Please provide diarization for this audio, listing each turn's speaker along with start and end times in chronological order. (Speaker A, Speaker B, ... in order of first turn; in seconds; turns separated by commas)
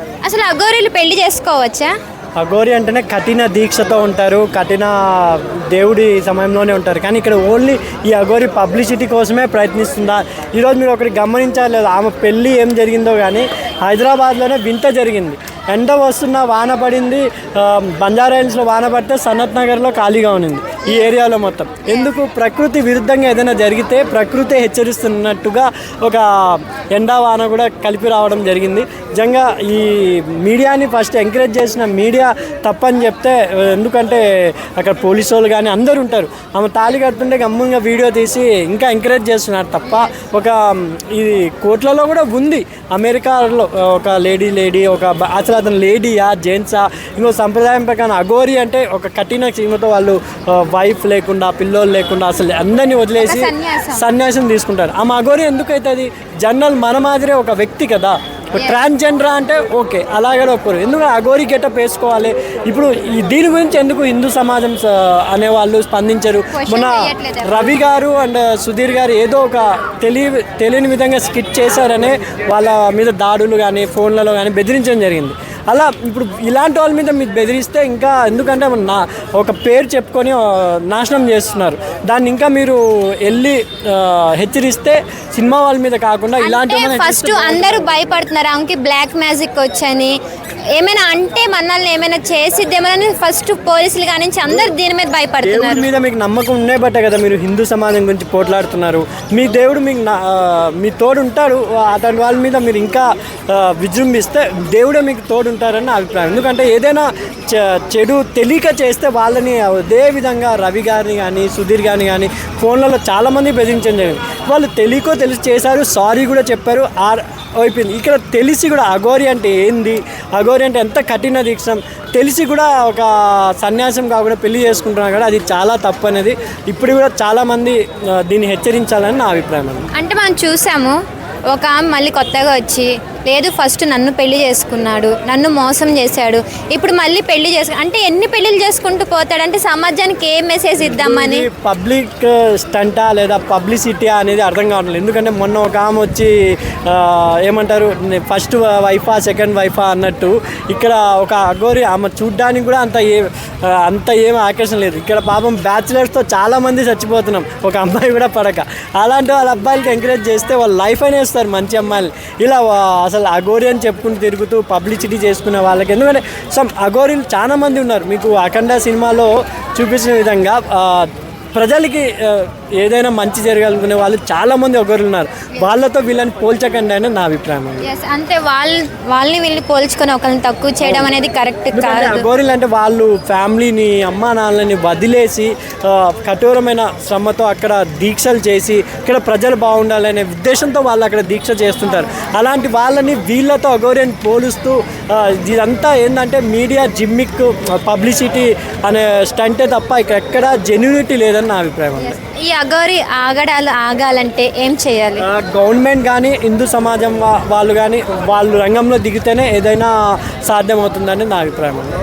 Speaker A: 0.2-1.9, Speaker B: 2.4-87.9, Speaker A: 53.2-54.0, Speaker A: 58.5-58.8, Speaker A: 66.5-67.8, Speaker A: 86.4-90.2, Speaker A: 90.7-95.9, Speaker B: 95.4-129.9, Speaker A: 129.9-131.0, Speaker A: 131.5-141.5, Speaker B: 140.8-146.3, Speaker B: 146.9-177.8, Speaker A: 177.8-182.3, Speaker B: 180.8-181.1, Speaker B: 181.7-202.2, Speaker A: 202.0-205.2, Speaker B: 205.2-211.9